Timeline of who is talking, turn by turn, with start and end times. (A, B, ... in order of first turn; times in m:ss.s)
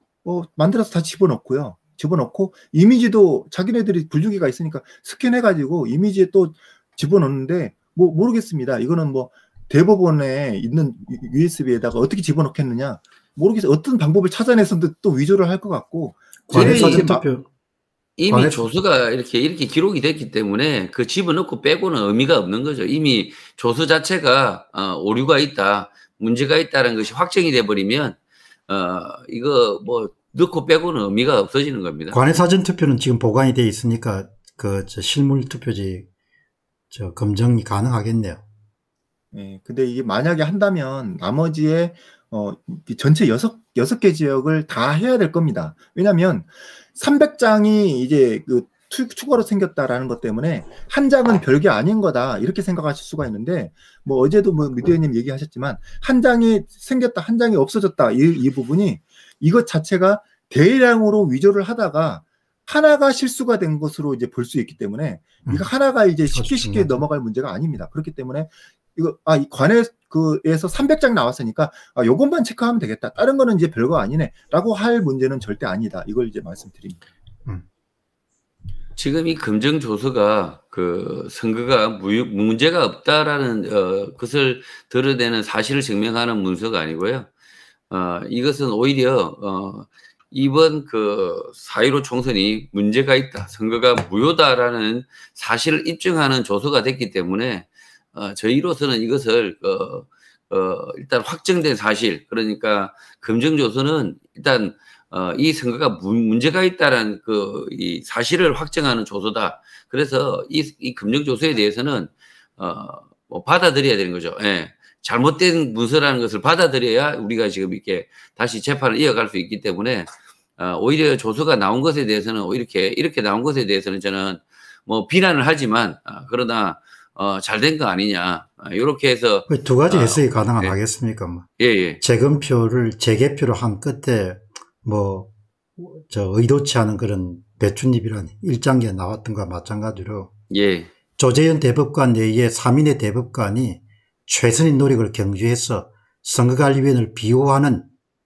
0:00.2-0:17.2 A
0:16.5-0:17.4 B
0:16.5-0:17.1 C
0:18.2-0:32.2 C
0:18.3-0:18.6 B
0:32.1-0:36.0 B
0:36.9-0:38.4 B
0:39.3-1:17.0 A
1:06.3-1:07.0 B
1:19.0-1:27.3 C
1:27.9-2:10.8 C
2:09.5-2:11.5 B
2:11.6-2:12.0 C
2:12.0-2:20.3 B
2:20.5-2:20.9 C
2:21.2-2:27.9 B